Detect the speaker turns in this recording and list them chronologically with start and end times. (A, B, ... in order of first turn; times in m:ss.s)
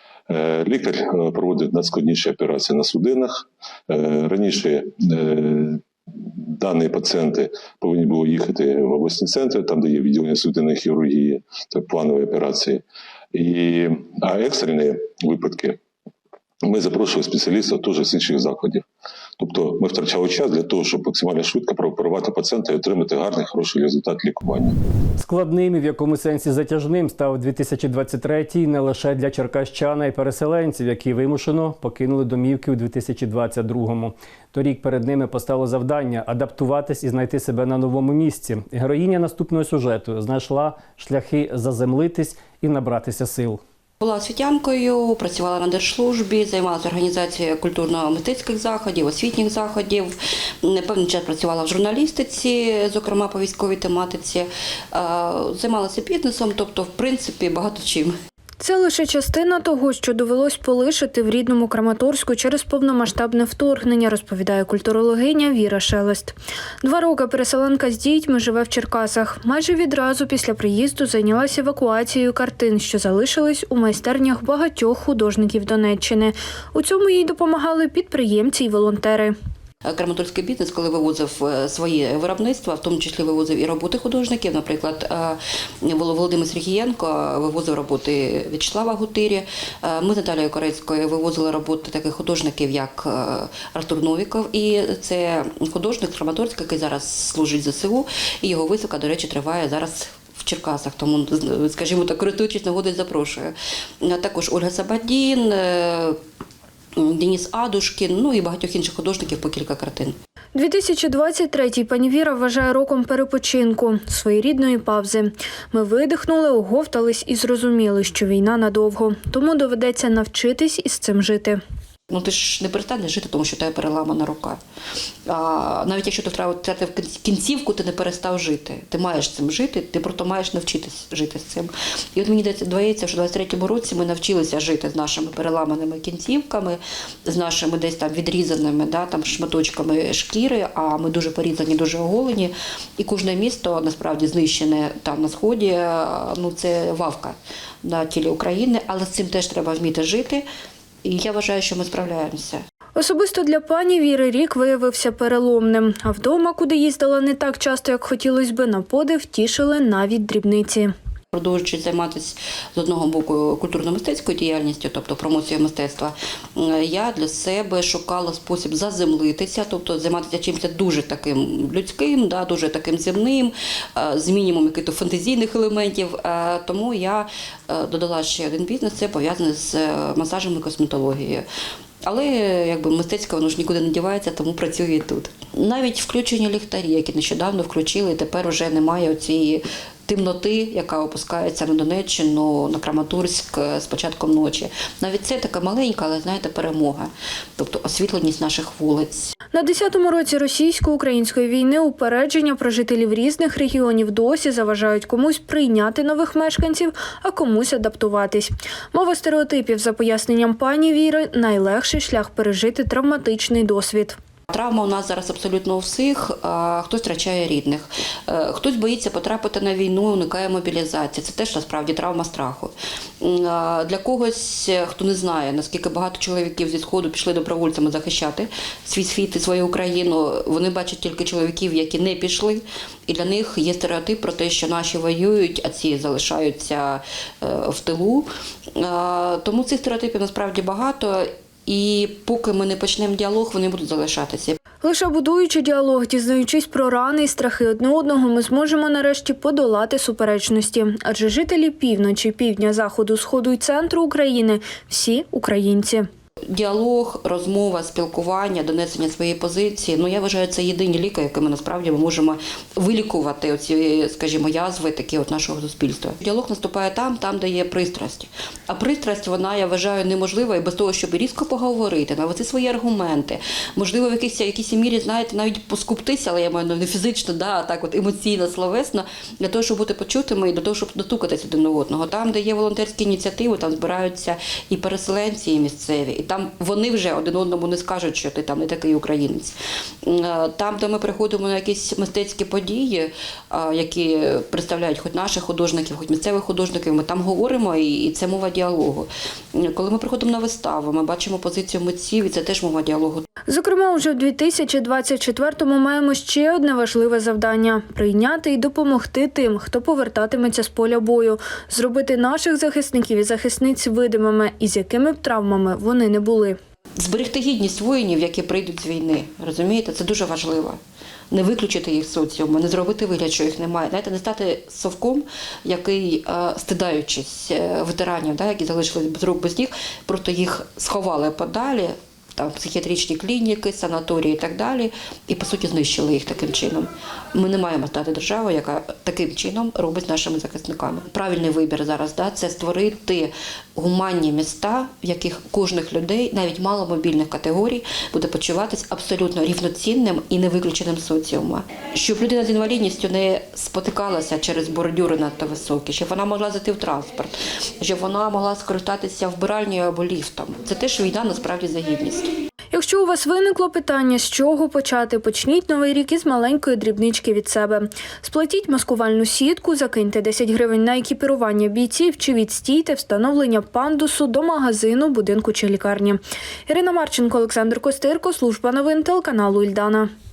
0:00.3-0:15.8 A
0:16.6-0:18.8 A
0:19.4-0:24.8 A
0:25.2-0:43.6 B
0:44.0-0:58.2 C
0:58.6-1:19.3 D
1:19.8-1:46.2 C
1:46.9-1:50.2 C
1:50.5-2:01.6 D
2:02.1-2:04.6 C
2:05.3-2:30.4 C
2:31.0-2:32.6 C
2:33.0-2:40.9 D
2:41.3-3:01.4 C
3:02.0-3:19.3 C
3:19.5-3:34.2 D
3:34.5-4:04.6 C
4:04.8-4:16.1 D
4:16.5-5:03.2 C
5:03.5-5:16.6 D
5:17.0-5:20.8 C
5:21.3-6:02.3 C
6:02.7-6:20.1 D